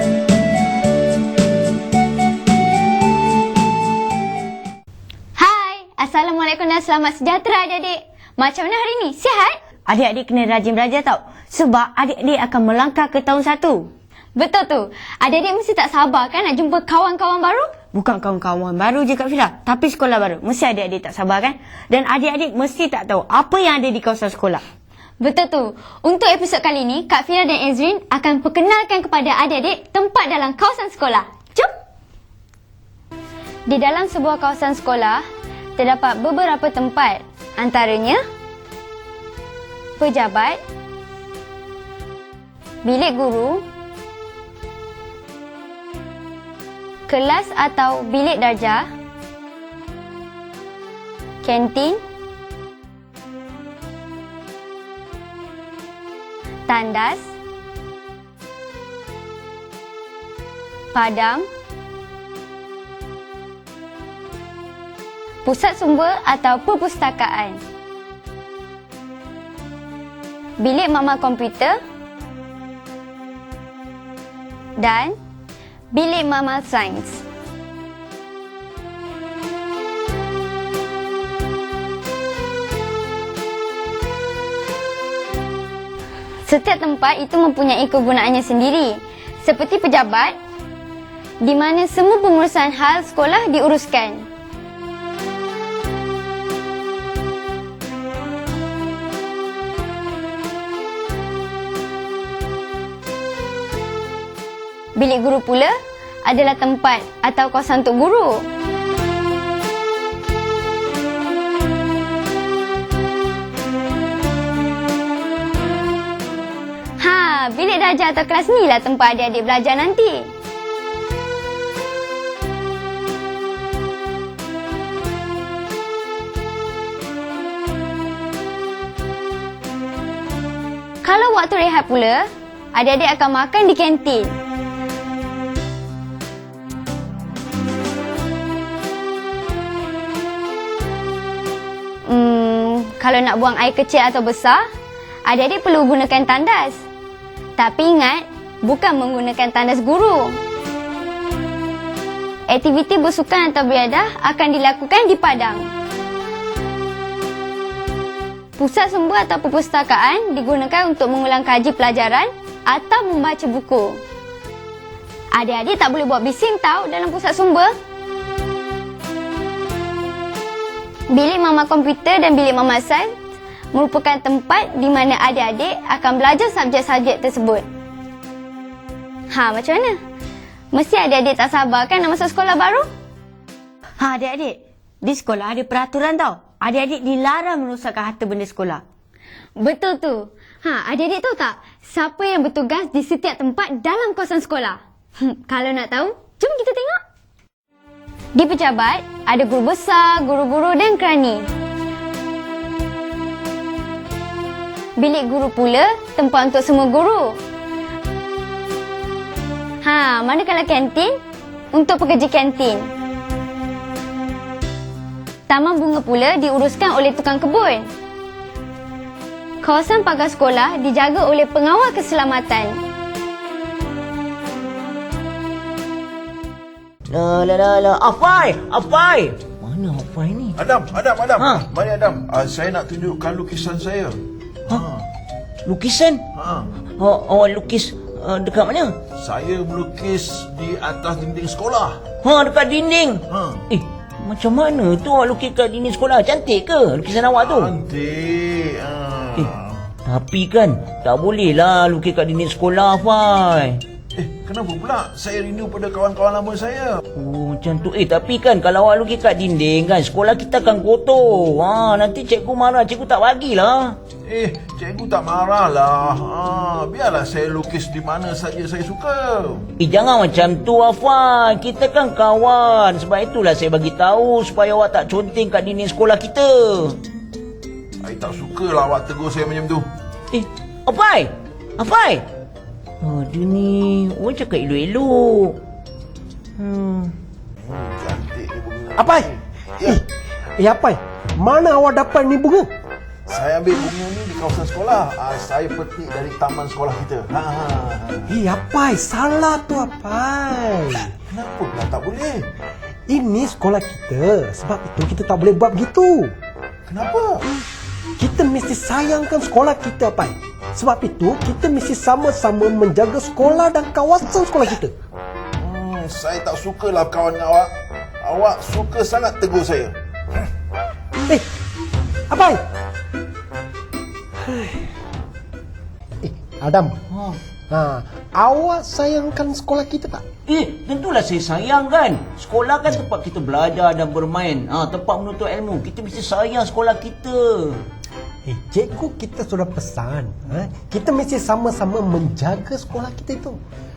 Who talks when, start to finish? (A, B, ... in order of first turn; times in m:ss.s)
0:05.4-0:09.6 A
0:09.9-0:13.9 B
0:14.4-0:17.7 A
0:17.9-0:24.6 B
0:25.2-0:31.7 A
0:33.7-0:35.2 A
0:35.8-0:38.2 A
0:40.0-0:40.6 A
0:42.8-0:43.6 A
0:47.1-0:48.8 A
0:51.4-0:52.0 A
0:56.7-0:57.3 A
1:00.9-1:01.4 A
1:05.4-1:07.6 A
1:10.6-1:11.8 A
1:14.8-1:15.2 A
1:15.9-1:17.2 A
1:26.4-1:30.4 A
1:31.4-1:34.3 A
1:45.0-1:45.7 A
1:46.2-1:48.4 A
1:57.0-2:00.3 A
2:11.0-2:14.3 A
2:22.1-2:24.6 A
2:25.3-2:26.8 A
2:27.6-2:30.4 A
2:32.5-2:35.6 A
2:38.6-2:44.0 A
2:45.3-2:47.7 A
2:51.1-2:53.1 A
2:53.7-2:57.6 A
2:59.3-3:00.0 A
3:00.7-3:02.8 A
3:04.0-3:08.8 B
3:09.6-3:17.0 A
3:18.4-3:21.4 A
3:25.0-3:27.4 A
3:29.8-3:31.1 A
3:31.7-3:32.9 A
3:35.5-3:37.9 A
3:39.6-3:42.8 A
3:47.1-3:50.5 C
3:50.6-3:55.0 D
3:55.6-3:56.2 C
3:56.3-3:56.7 D
3:57.0-3:58.9 C
3:59.2-4:02.0 D
4:02.2-4:03.2 C
4:03.3-4:03.6 D
4:03.7-4:07.5 C
4:07.4-4:09.8 D
4:10.0-4:13.8 C
4:14.1-4:16.9 D
4:17.2-4:24.0 C
4:24.2-4:29.7 D
4:29.8-4:37.0 C
4:38.0-4:39.9 D
4:40.3-4:42.2 C
4:43.0-4:45.6 C
4:46.6-4:47.1 C
4:47.6-4:50.0 D
4:49.0-4:49.3 E
4:50.6-4:52.7 E
4:53.3-4:58.3 D
4:58.3-5:01.1 E
5:01.3-5:02.5 D
5:03.1-5:06.3 E
5:06.9-5:07.4 D
5:08.2-5:14.9 E
5:15.6-5:19.9 D
5:22.3-5:22.6 E
5:24.4-5:24.8 E
5:26.2-5:27.0 E
5:27.1-5:27.4 C
5:27.7-5:30.2 E
5:30.5-5:37.8 C
5:38.4-5:43.6 E